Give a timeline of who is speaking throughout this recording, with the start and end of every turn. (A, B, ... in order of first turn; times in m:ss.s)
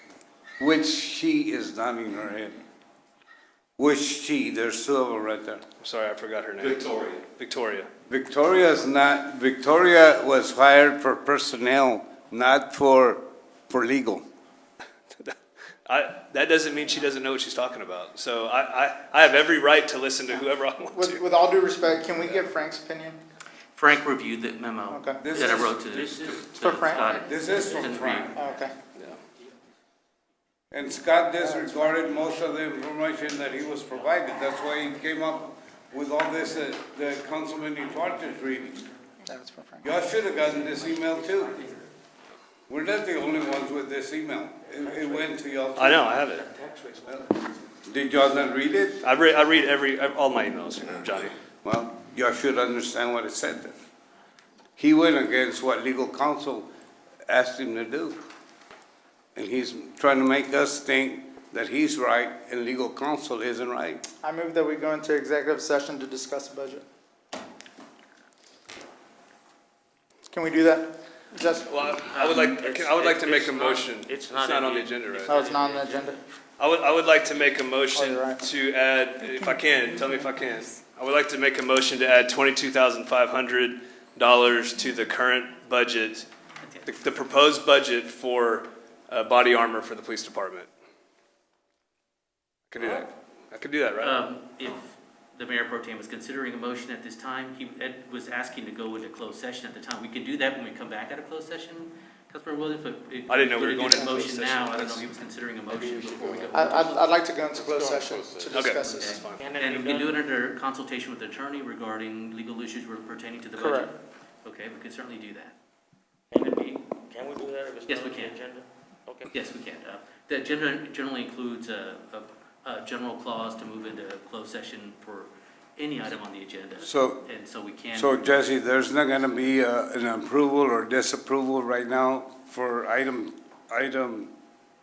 0:00.6-0:02.6 A
0:03.8-0:05.6 A
0:05.8-0:07.9 B
0:08.1-0:14.2 A
0:15.8-0:21.2 B
0:20.9-0:23.2 C
0:23.7-0:28.4 D
0:24.9-0:25.2 C
0:25.2-0:26.4 A
0:26.6-0:27.4 C
0:27.0-0:28.4 A
0:28.3-0:28.7 C
0:30.7-0:38.9 A
0:31.4-0:32.1 C
0:39.2-0:39.9 C
0:39.8-0:41.6 A
0:40.2-0:41.9 D
0:42.7-0:46.2 A
0:44.8-0:45.3 E
0:45.8-0:46.5 B
0:46.4-0:47.5 E
0:47.8-0:49.0 A
0:49.0-0:51.4 B
0:51.6-0:53.7 A
0:54.8-0:56.7 A
0:57.3-0:58.2 A
0:59.4-1:04.0 A
1:04.2-1:06.8 C
1:10.3-1:11.7 C
1:11.6-1:15.4 B
1:12.2-1:16.2 E
1:15.3-1:16.2 C
1:16.6-1:26.3 B
1:17.9-1:18.4 C
1:26.6-1:26.9 D
1:26.8-1:30.7 B
1:32.7-1:34.2 B
1:34.0-1:47.1 D
1:43.3-1:45.1 B
1:46.5-1:49.2 C
1:47.6-1:48.6 E
1:48.5-1:49.4 B
1:48.8-1:55.6 D
1:49.4-1:50.1 E
1:53.6-1:53.9 C
1:56.3-1:59.3 E
1:57.9-1:58.4 D
1:59.3-2:08.5 D
2:06.8-2:07.2 A
2:07.9-2:14.3 A